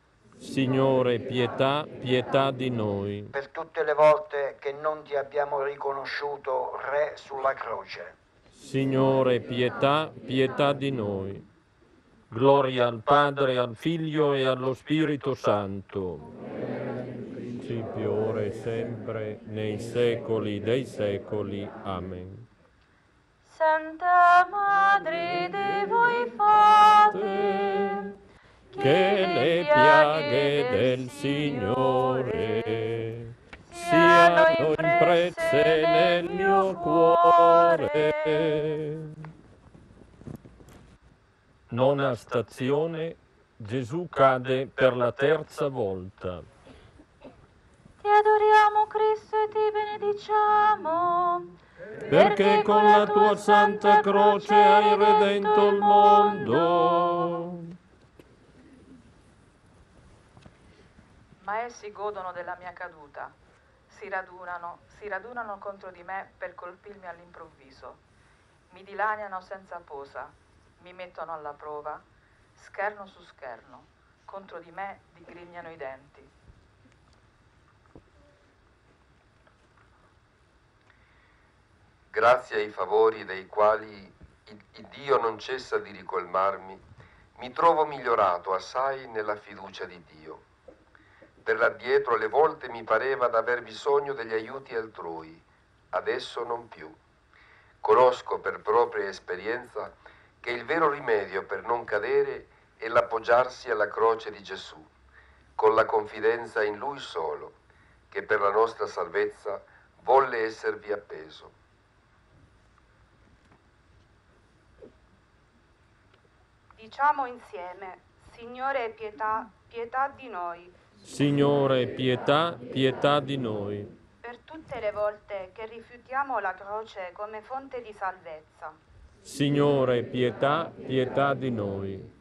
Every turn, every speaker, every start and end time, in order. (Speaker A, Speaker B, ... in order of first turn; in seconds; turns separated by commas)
Speaker A: 0.4-3.3, Speaker B: 3.3-8.1, Speaker A: 8.5-11.5, Speaker A: 12.3-16.3, Speaker A: 17.6-22.5, Speaker C: 23.4-27.9, Speaker A: 27.2-28.1, Speaker C: 28.7-32.6, Speaker A: 28.8-39.1, Speaker C: 33.6-38.4, Speaker A: 41.7-46.5, Speaker C: 48.0-51.5, Speaker A: 52.1-57.7, Speaker C: 52.1-57.0, Speaker D: 61.4-63.4, Speaker D: 63.9-68.0, Speaker D: 68.7-72.0, Speaker D: 72.5-76.3, Speaker E: 82.1-86.8, Speaker E: 87.3-90.4, Speaker E: 91.4-97.0, Speaker E: 97.8-104.9, Speaker E: 105.5-107.6, Speaker E: 108.1-111.5, Speaker F: 116.7-120.7, Speaker A: 121.0-123.9, Speaker F: 124.2-128.8, Speaker A: 129.2-132.1